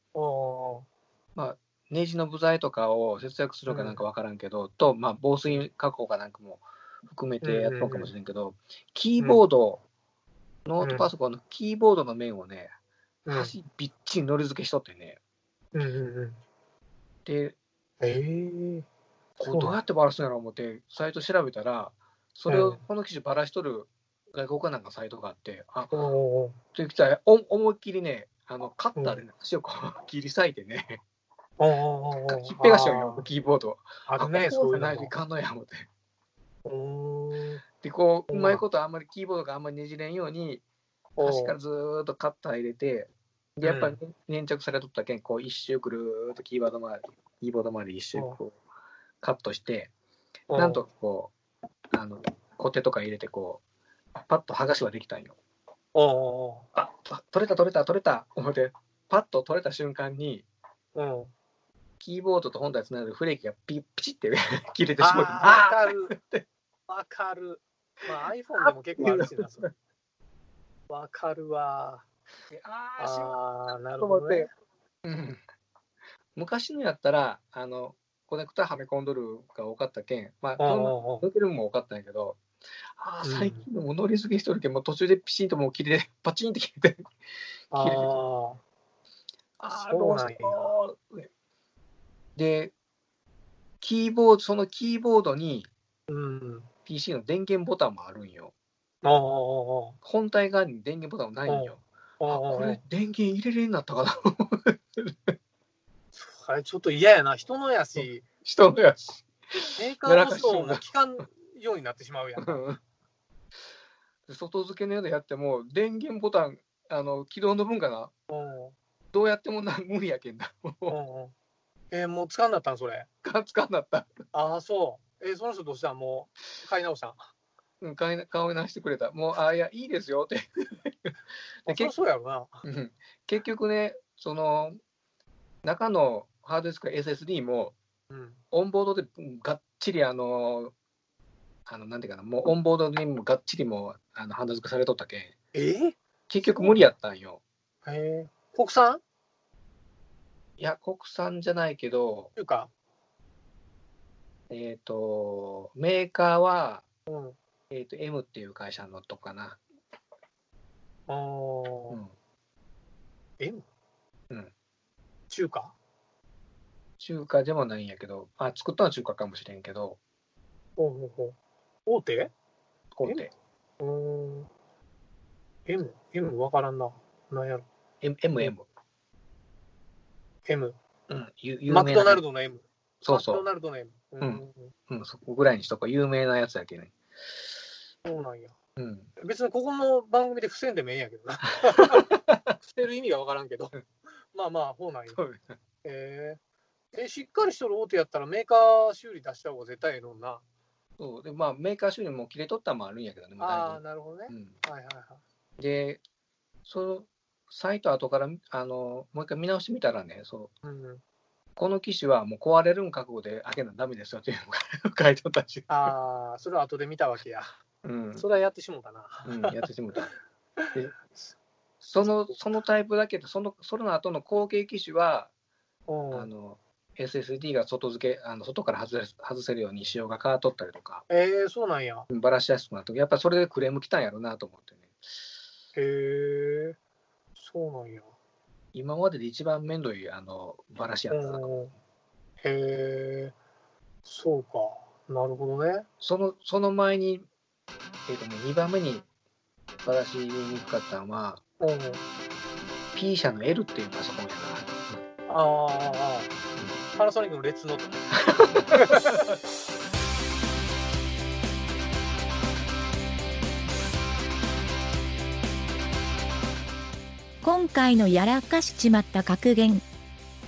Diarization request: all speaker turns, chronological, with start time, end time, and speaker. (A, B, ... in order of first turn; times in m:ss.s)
0:00.1-0:00.9 A
0:01.4-0:09.8 B
0:03.7-0:04.0 A
0:07.4-0:08.1 A
0:10.6-0:12.7 B
0:10.8-0:11.1 A
0:13.3-0:13.5 A
0:13.3-0:15.2 B
0:15.7-0:16.4 A
0:17.3-0:17.6 B
0:18.0-0:18.9 A
0:19.4-0:26.0 B
0:19.5-0:19.8 A
0:22.5-0:22.8 A
0:25.9-0:26.6 A
0:26.7-0:31.0 B
0:29.0-0:29.2 A
0:31.6-0:33.3 A
0:32.3-0:35.9 B
0:34.1-0:35.1 A
0:36.6-0:37.6 A
0:37.8-0:40.6 B
0:38.3-0:38.6 A
0:41.2-0:41.6 A
0:41.2-0:48.6 B
0:43.6-0:44.0 A
0:49.2-0:49.9 B
0:50.5-0:50.8 A
0:50.5-0:51.3 B
0:51.9-0:53.6 B
0:54.2-0:55.4 B
0:55.9-0:56.7 A
0:56.8-1:00.5 B
1:00.9-1:01.3 A
1:02.0-1:06.4 B
1:05.0-1:06.2 A
1:06.9-1:09.7 A
1:08.6-1:09.7 B
1:10.9-1:12.0 A
1:12.5-1:13.4 B
1:13.0-1:14.5 A
1:13.9-1:14.5 B
1:15.0-1:15.4 B
1:16.4-1:22.4 B
1:20.6-1:21.3 A
1:23.0-1:27.0 B
1:23.2-1:23.7 A
1:27.7-1:28.6 A
1:27.7-1:28.2 B
1:29.6-1:31.3 B
1:29.7-1:30.8 A
1:32.4-1:32.7 B
1:33.8-1:35.7 B
1:36.1-1:36.7 A
1:36.9-1:38.5 B
1:39.0-1:40.0 A
1:40.0-1:45.3 B
1:41.5-1:42.8 A
1:46.1-1:48.2 A
1:48.0-1:50.9 B
1:49.8-1:52.7 A
1:52.4-1:52.8 B
1:54.3-1:58.1 B
1:58.3-1:58.8 A
1:59.1-2:01.0 B
2:00.9-2:01.3 A
2:01.9-2:03.1 A
2:03.2-2:04.2 B
2:04.3-2:07.3 A
2:07.8-2:11.1 B
2:11.6-2:11.9 B
2:11.7-2:12.6 A
2:12.6-2:14.8 B
2:15.6-2:17.8 B
2:18.1-2:18.4 A
2:18.5-2:20.7 B
2:21.7-2:25.4 B
2:25.5-2:26.9 A
2:26.3-2:27.4 B
2:27.8-2:29.0 A
2:30.6-2:32.3 B
2:32.4-2:32.7 A
2:34.5-2:36.8 B
2:37.1-2:37.4 A
2:37.7-2:39.6 B
2:41.1-2:42.0 A
2:43.4-2:43.7 A
2:45.3-2:45.7 A
2:47.0-2:50.0 B
2:50.8-2:52.3 A
2:52.9-2:53.3 B
2:53.8-2:54.5 A
2:55.7-2:57.7 A
2:58.0-2:58.7 B
3:00.5-3:00.8 A
3:01.1-3:02.2 B
3:01.7-3:04.7 A
3:03.0-3:03.5 B
3:04.2-3:06.9 B
3:08.0-3:08.5 A
3:08.8-3:09.1 B
3:09.2-3:13.8 A
3:11.9-3:12.4 B
3:14.3-3:15.2 A
3:15.1-3:15.6 B
3:15.8-3:16.4 A
3:16.9-3:20.4 A
3:21.0-3:24.6 B
3:23.4-3:25.2 A
3:25.6-3:26.0 B
3:26.7-3:30.5 B
3:30.6-3:31.0 A
3:31.6-3:35.9 B
3:35.7-3:37.6 A
3:37.8-3:38.3 B
3:38.2-3:39.5 A
3:39.2-3:40.1 B
3:41.8-3:45.3 B
3:42.0-3:42.3 A
3:45.9-3:46.3 A
3:46.1-3:51.0 B
3:51.1-3:52.1 A
3:52.1-3:55.0 B
3:55.8-3:56.8 A
3:57.4-3:58.1 A
3:58.7-4:01.5 B
4:01.1-4:01.7 A
4:02.4-4:03.3 A
4:04.0-4:05.9 A
4:06.0-4:07.3 B
4:08.1-4:09.1 B
4:09.8-4:11.4 B
4:11.6-4:12.0 A
4:12.9-4:15.0 B
4:15.3-4:16.3 A
4:16.9-4:18.1 A
4:18.3-4:19.2 B
4:27.4-4:29.8 C